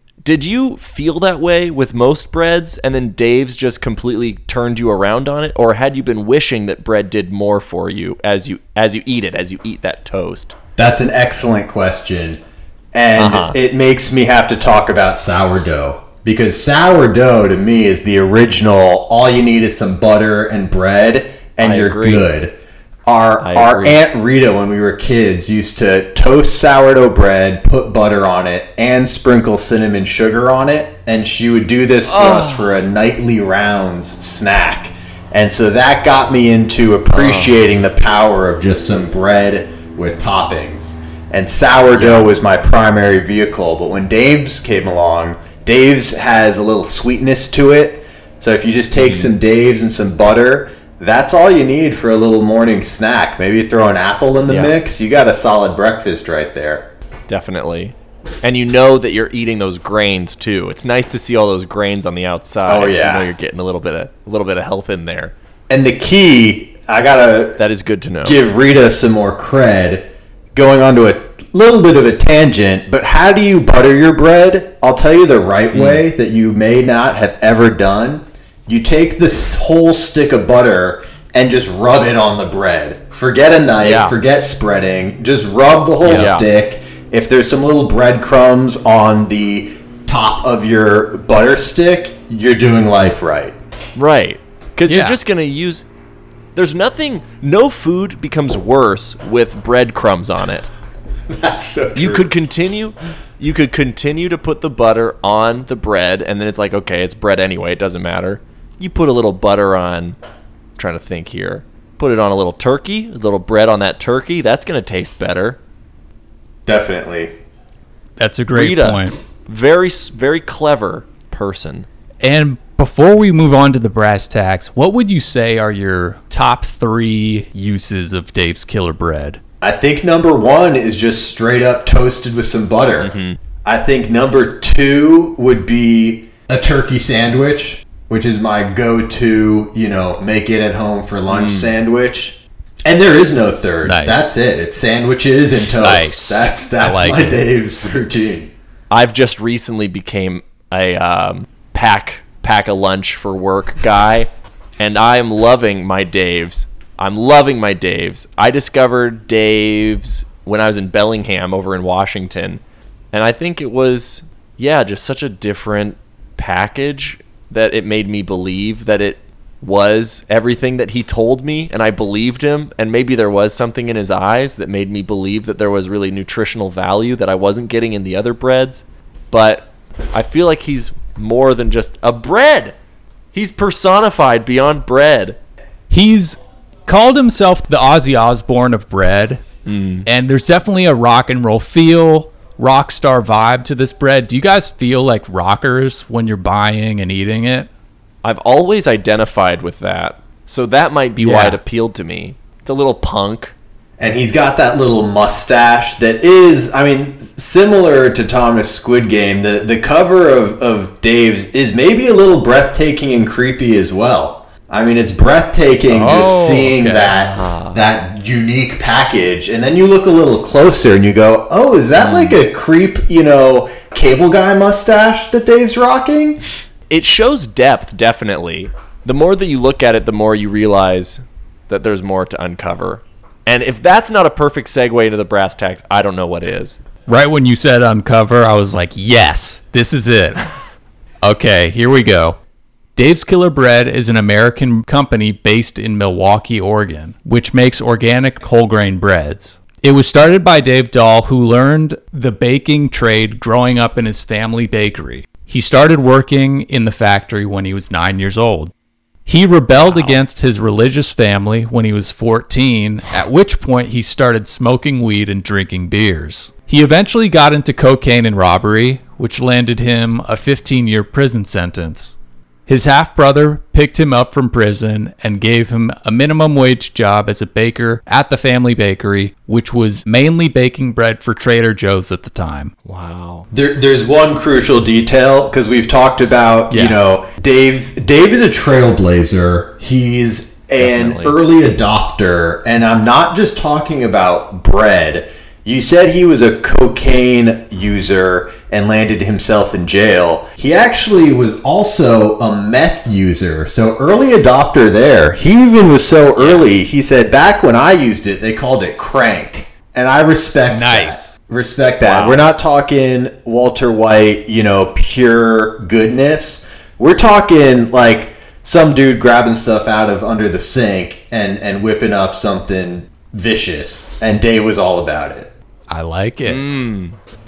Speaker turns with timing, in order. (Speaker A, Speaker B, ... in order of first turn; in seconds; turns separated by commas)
Speaker A: 0.2-10.5, Speaker B: 10.8-12.4, Speaker B: 12.9-22.5, Speaker A: 13.2-13.6, Speaker A: 21.6-22.2, Speaker B: 23.1-56.9, Speaker A: 23.4-24.0, Speaker A: 32.0-32.7, Speaker A: 37.1-37.6, Speaker A: 42.0-42.3, Speaker A: 49.0-49.3, Speaker A: 54.5-54.7, Speaker A: 57.3-65.3, Speaker B: 62.6-63.3, Speaker B: 65.7-67.6, Speaker A: 67.6-68.4, Speaker B: 68.2-93.5, Speaker A: 75.7-76.0, Speaker A: 83.8-84.2, Speaker C: 86.0-86.4, Speaker A: 86.1-86.4, Speaker A: 94.0-95.8, Speaker C: 94.9-95.2, Speaker A: 96.5-100.7, Speaker B: 101.3-102.3, Speaker A: 102.0-110.2, Speaker A: 110.8-115.6, Speaker B: 116.7-117.3, Speaker C: 118.2-119.2, Speaker A: 118.5-121.9, Speaker C: 122.2-129.4, Speaker B: 129.6-133.1, Speaker A: 133.0-133.4, Speaker B: 133.6-148.5, Speaker A: 141.3-141.7, Speaker C: 143.8-144.2, Speaker C: 145.8-147.5, Speaker A: 148.9-182.7, Speaker A: 183.3-185.4, Speaker C: 185.9-189.4, Speaker A: 189.7-190.1, Speaker C: 190.0-197.7, Speaker A: 198.2-203.5, Speaker C: 201.2-201.6, Speaker B: 204.0-226.4, Speaker C: 215.9-217.1, Speaker A: 217.1-217.8, Speaker A: 222.0-222.4, Speaker A: 226.9-236.8, Speaker C: 237.1-240.4, Speaker C: 241.2-242.4, Speaker C: 242.9-258.7, Speaker C: 259.2-272.1, Speaker A: 259.8-260.2, Speaker C: 272.7-282.7, Speaker A: 282.9-283.5, Speaker B: 283.5-325.5, Speaker C: 286.7-287.0, Speaker A: 290.8-291.4, Speaker C: 310.7-311.4, Speaker A: 312.0-312.4, Speaker C: 325.9-326.6, Speaker A: 326.5-327.2